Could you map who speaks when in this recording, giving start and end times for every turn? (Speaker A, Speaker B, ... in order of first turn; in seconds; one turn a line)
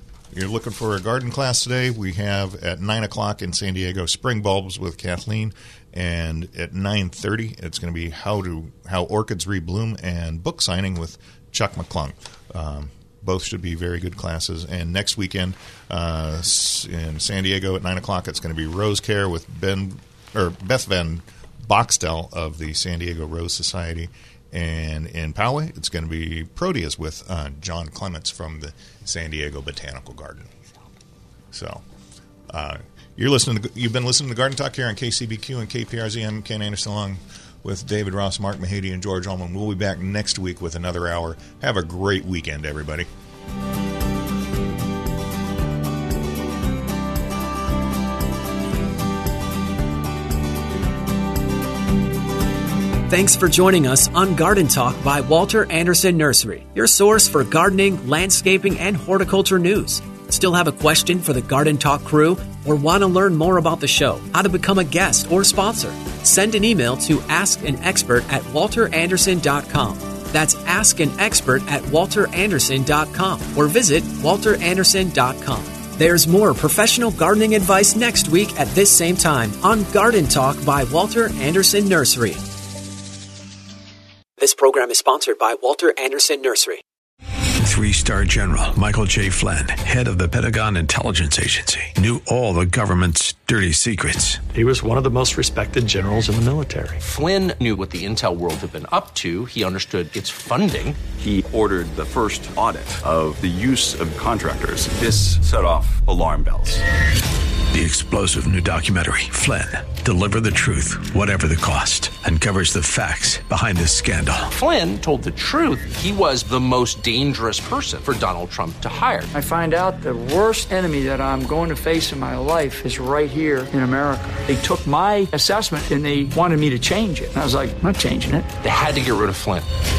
Speaker A: 0.3-30.5
Speaker A: 31.5-31.8
Speaker A: 32.5-43.1
Speaker B: 53.1-82.4
Speaker B: 84.4-86.8
Speaker C: 87.6-94.5
Speaker D: 94.5-97.0
Speaker E: 97.0-101.0
Speaker F: 101.0-106.8
Speaker C: 107.7-114.5
Speaker E: 114.5-119.3
Speaker G: 119.3-128.5
Speaker E: 128.5-129.7